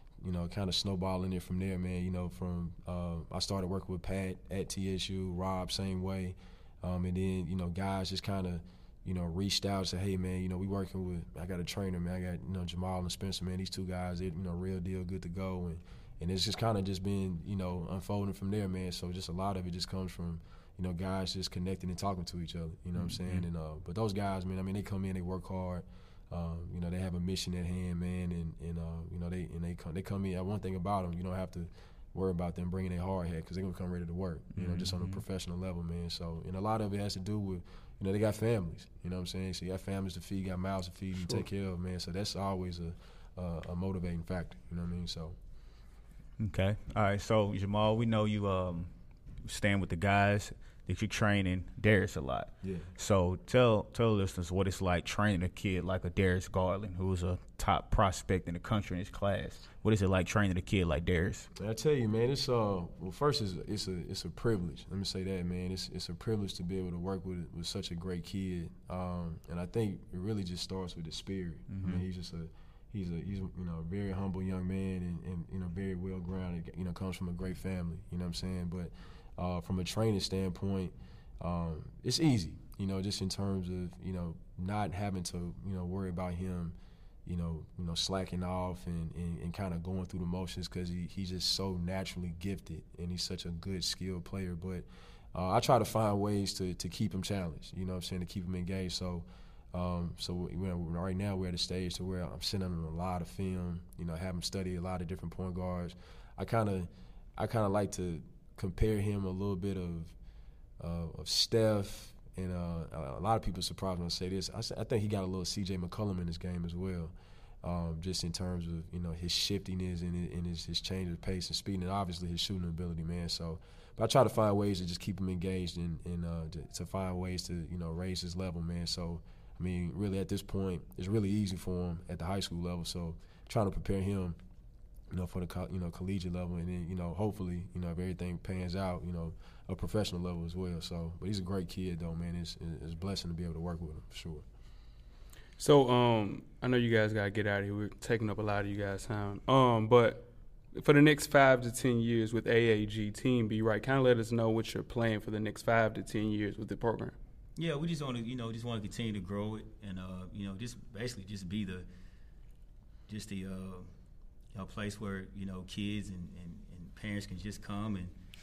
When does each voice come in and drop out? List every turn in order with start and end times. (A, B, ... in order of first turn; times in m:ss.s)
0:00.2-0:45.4 A
0:22.9-0:23.4 B
0:34.5-0:35.2 B
0:41.2-0:41.4 C
0:46.4-0:48.9 B
0:49.4-1:01.5 B
0:52.6-0:52.9 A
1:01.6-1:50.1 A
1:11.7-1:12.0 B
1:50.8-2:14.4 A
2:15.1-2:24.4 A
2:25.6-2:30.2 C
2:30.7-2:37.1 C
2:37.6-2:41.8 D
2:43.1-2:43.9 D
2:44.5-2:48.1 D